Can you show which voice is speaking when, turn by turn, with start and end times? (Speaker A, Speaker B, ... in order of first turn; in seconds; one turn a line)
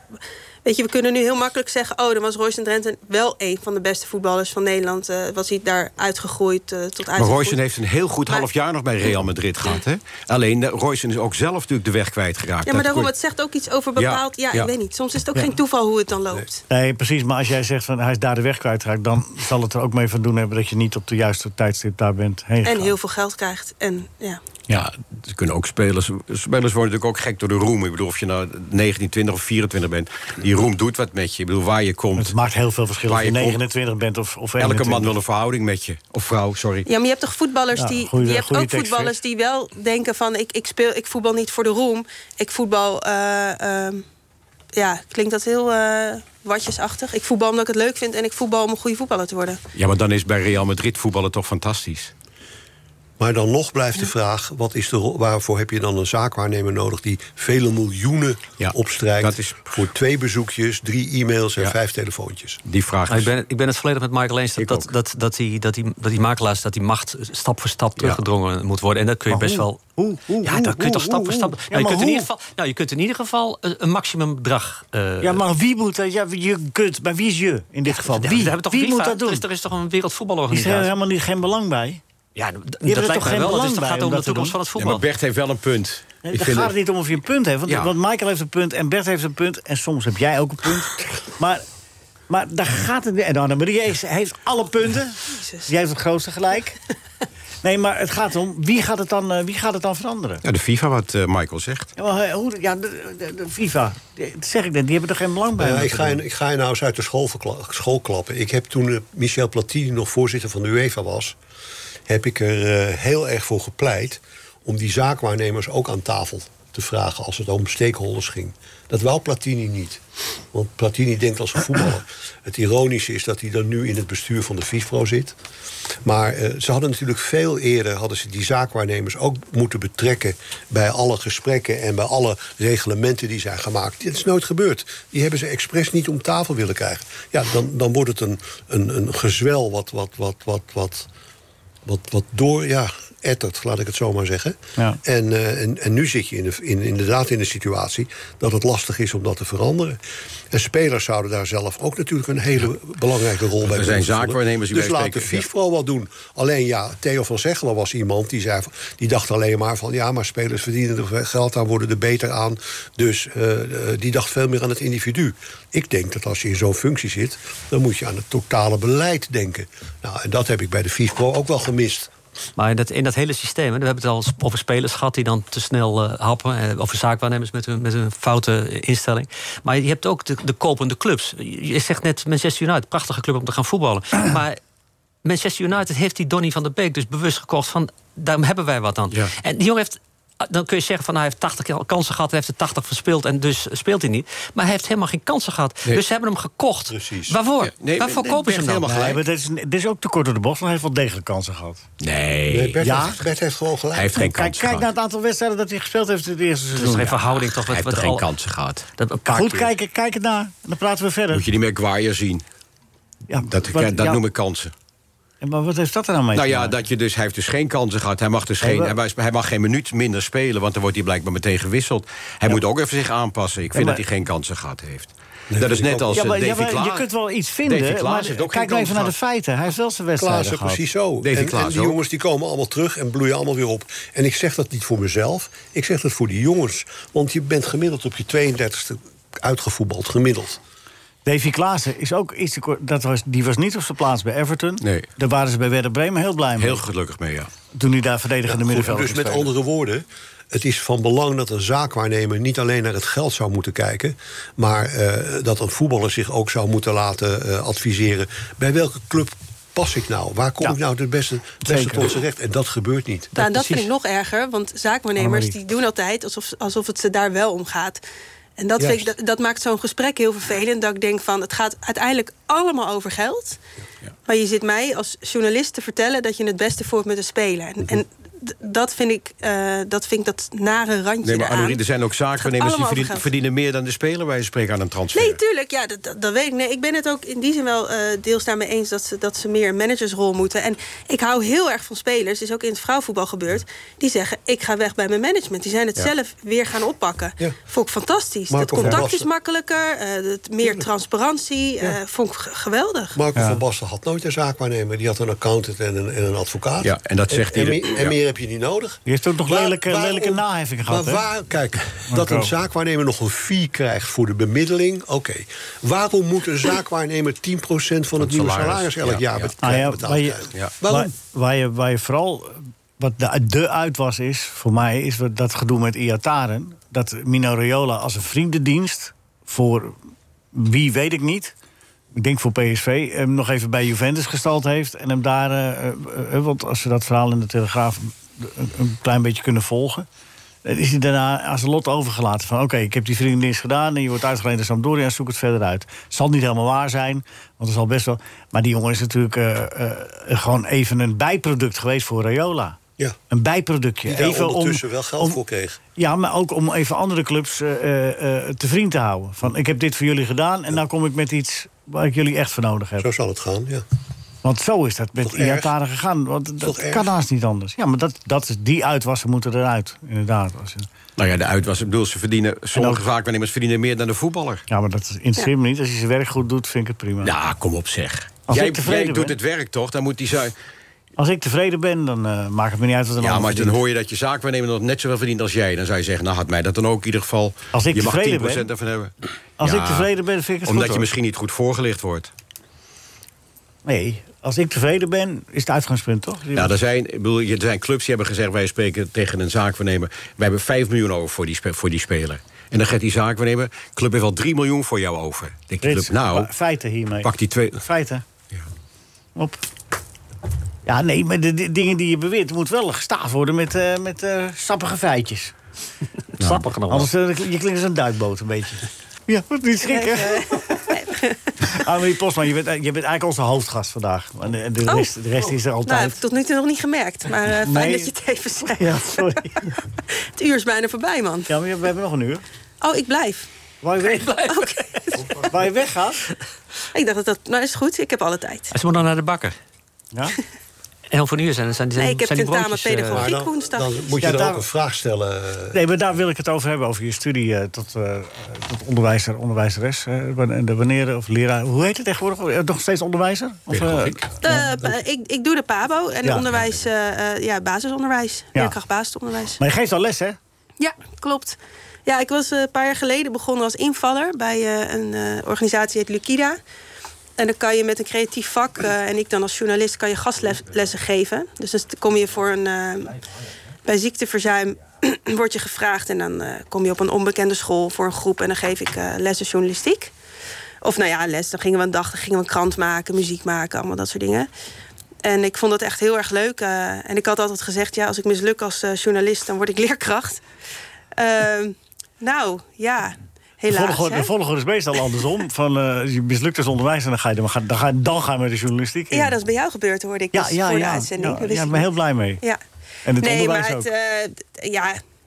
Speaker A: 0.6-7.6
Speaker B: 7.1-13.1
Speaker A: 12.7-16.6
Speaker B: 14.0-14.7
Speaker C: 16.7-22.9
Speaker A: 22.6-24.4
Speaker B: 24.7-32.3
Speaker C: 32.1-35.2
Speaker B: 33.1-33.6
Speaker B: 34.6-36.9
Speaker A: 36.9-44.0
Speaker C: 37.8-39.2
Speaker A: 44.8-49.6
Speaker B: 49.8-52.1
Speaker D: 53.2-62.6
Speaker B: 58.6-59.7
Speaker B: 62.6-63.3
Speaker E: 63.1-69.8
Speaker B: 64.6-64.9
Speaker C: 69.3-72.3
Speaker E: 70.4-75.4
Speaker C: 75.2-79.4
Speaker E: 77.9-80.9
Speaker C: 80.5-82.0
Speaker E: 82.4-85.0
Speaker C: 82.8-84.6
Speaker B: 84.8-86.7
Speaker C: 86.2-91.6
Speaker B: 87.7-87.9
Speaker C: 92.3-96.8
Speaker A: 95.3-95.7
Speaker C: 97.6-100.4
Speaker B: 100.4-101.9
Speaker C: 102.0-106.2
Speaker D: 105.6-111.4
Speaker D: 112.1-120.0
Speaker D: 120.5-125.4
Speaker D: 126.0-141.1
Speaker D: 141.8-150.0
Speaker D: 150.5-172.1
Speaker B: 153.6-155.4
Speaker E: 172.6-184.6
Speaker E: 185.2-198.9
Speaker D: 196.9-197.4
Speaker B: 197.6-199.2
Speaker C: 198.8-201.8
Speaker B: 202.0-202.8
Speaker D: 202.5-204.1
Speaker C: 202.8-203.2
Speaker B: 203.9-204.9
Speaker C: 204.1-207.2
Speaker E: 206.8-208.3
Speaker B: 207.6-208.9
Speaker E: 209.0-209.7
Speaker C: 209.3-211.5
Speaker B: 211.3-212.4
Speaker C: 213.3-214.2
Speaker B: 213.5-214.7
Speaker C: 215.4-216.8
Speaker B: 216.3-227.1
Speaker C: 218.6-219.0
Speaker C: 223.7-224.0
Speaker D: 225.5-226.2
Speaker C: 226.1-230.8
Speaker B: 227.6-229.1
Speaker D: 230.2-240.6
Speaker B: 231.2-232.0
Speaker C: 241.3-246.8
Speaker B: 244.8-245.1
Speaker B: 246.6-247.5
Speaker C: 247.7-249.5
Speaker D: 248.5-263.3
Speaker C: 261.6-262.1
Speaker E: 263.4-263.9
Speaker A: 263.4-268.0
Speaker C: 265.2-265.6
Speaker A: 268.6-273.6
Speaker D: 268.8-269.1
Speaker A: 274.3-281.8
Speaker B: 281.2-285.4
Speaker A: 282.4-283.3
Speaker A: 285.1-303.2
Speaker D: 298.5-299.3
Speaker D: 303.1-321.1
Speaker B: 306.8-308.1
Speaker C: 309.1-311.2
Speaker C: 312.1-312.5
Speaker B: 318.2-319.5
Speaker C: 319.6-330.0
Speaker C: 330.5-331.5
Speaker C: 332.1-340.1
Speaker C: 340.6-352.8
Speaker C: 353.3-355.4
Speaker D: 354.1-355.8
Speaker C: 356.0-363.1
Speaker D: 363.0-363.8
Speaker C: 364.4-370.9
Speaker D: 365.2-365.7
Speaker D: 366.6-367.1
Speaker B: 371.2-374.6
Speaker C: 372.7-373.0
Speaker C: 374.7-377.3
Speaker B: 377.2-380.5
Speaker C: 378.5-379.4
Speaker C: 381.2-383.8
Speaker B: 383.2-390.1
Speaker C: 387.7-388.7
Speaker C: 389.6-391.1
Speaker B: 390.6-392.3
Speaker C: 393.9-396.7
Speaker B: 396.6-406.5
Speaker C: 405.8-408.2
Speaker B: 407.2-407.8
Speaker C: 409.4-409.6
Speaker C: 410.9-415.6
Speaker B: 416.4-416.7
Speaker E: 416.4-417.1
Speaker C: 416.9-420.9
Speaker A: 419.9-421.5
Speaker C: 421.6-426.2
Speaker A: 425.9-429.4
Speaker C: 427.6-428.1
Speaker C: 428.8-429.8
Speaker A: 430.2-431.5
Speaker C: 431.5-432.4
Speaker A: 432.8-433.5
Speaker C: 433.8-434.3
Speaker E: 434.2-434.5
Speaker A: 434.5-435.4
Speaker C: 435.4-436.3
Speaker A: 436.9-438.7
Speaker E: 438.7-439.6
Speaker E: 441.1-443.3
Speaker A: 442.0-444.1
Speaker D: 443.1-445.8
Speaker C: 444.2-444.6
Speaker C: 445.7-454.9
Speaker B: 453.7-454.2
Speaker A: 454.4-459.6
Speaker C: 459.6-460.4
Speaker A: 460.8-466.6
Speaker A: 467.4-473.2
Speaker A: 473.9-480.1
Speaker A: 480.8-484.5
Speaker A: 485.2-490.4
Speaker A: 491.1-494.3
Speaker C: 493.7-499.3
Speaker A: 499.1-501.9
Speaker C: 500.3-502.4
Speaker C: 503.1-503.9
Speaker A: 503.2-505.0